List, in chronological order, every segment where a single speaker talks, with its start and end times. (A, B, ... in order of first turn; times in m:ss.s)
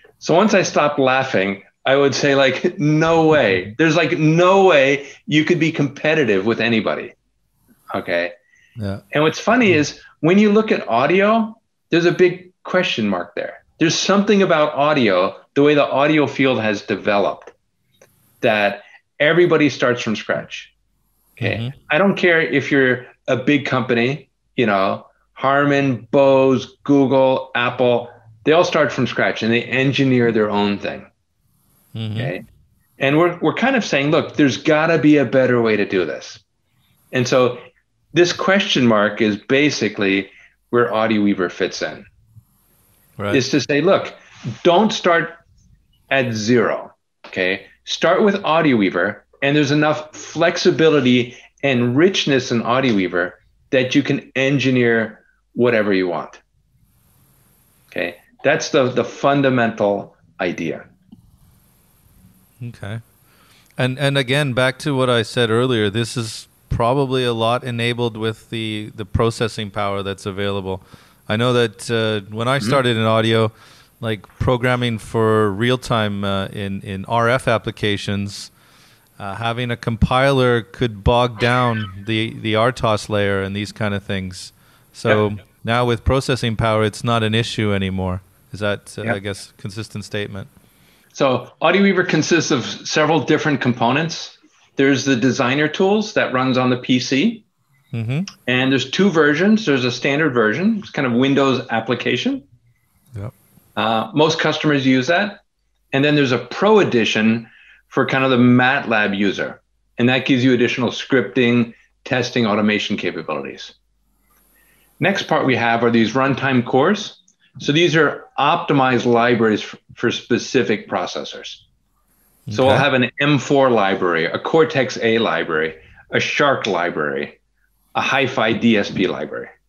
0:00.2-0:07.1 A
0:07.9-0:08.3 A
0:08.8-0:09.0 B
0:09.1-0:17.5 A
0:18.4-0:20.7 A
0:21.4-0:31.1 A
0:21.4-0:21.7 B
0:31.9-0:32.3 B
0:32.2-0:32.4 A
0:33.0-0:36.4 A
0:37.1-0:42.0 A
0:43.3-0:45.4 A
0:46.1-0:56.4 A
0:57.9-1:00.9 A
1:02.6-1:03.0 B
1:03.8-1:18.5 B
1:19.2-1:30.5 B
1:31.1-1:37.4 A
1:37.9-1:38.3 B
1:38.5-1:42.4 A
1:43.8-1:45.4 A
1:45.9-1:53.7 A
1:55.0-2:01.6 A
2:02.5-2:02.8 B
2:02.5-2:07.4 A
2:07.9-2:09.5 A